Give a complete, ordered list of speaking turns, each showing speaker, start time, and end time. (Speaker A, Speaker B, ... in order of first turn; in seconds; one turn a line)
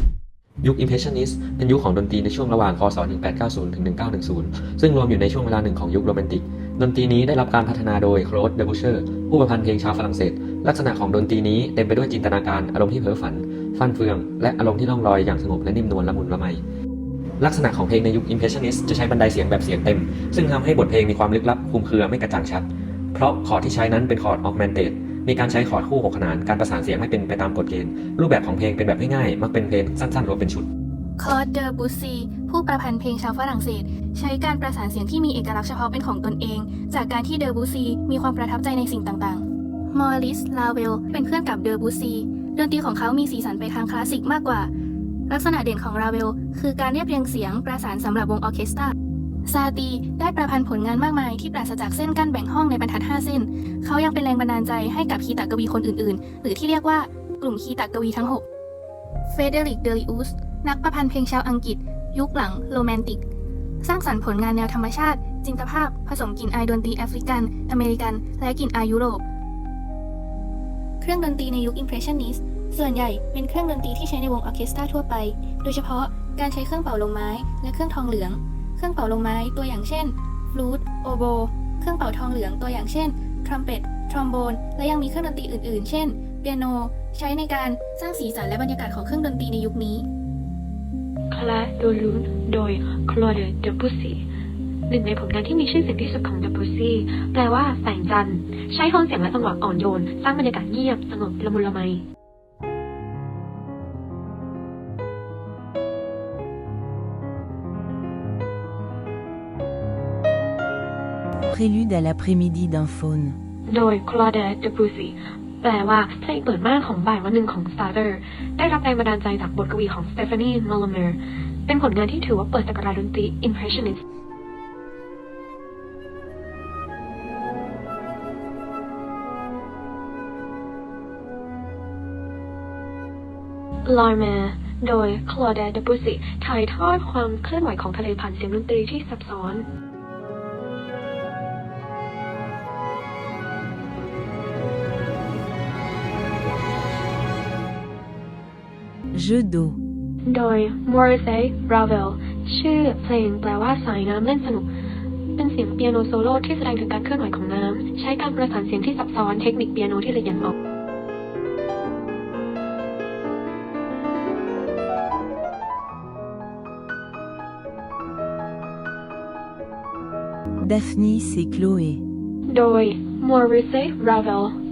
Speaker A: 0.6-16.6
Speaker A: 17.4-30.7
Speaker B: 31.2-44.7
Speaker B: 45.3-48.9
Speaker B: 49.5-58.4
Speaker B: 59.3-63.2
Speaker B: 63.8-69.2
Speaker B: 71.0-90.1
Speaker C: 91.3-94.2
Speaker C: 94.9-102.0
Speaker D: 111.5-113.4
Speaker C: 113.7-124.0
Speaker C: 133.8-139.7
Speaker D: 149.1-149.8
Speaker C: 150.3-154.7
Speaker C: 155.4-160.5
Speaker D: 170.6-172.0
Speaker C: 172.5-174.6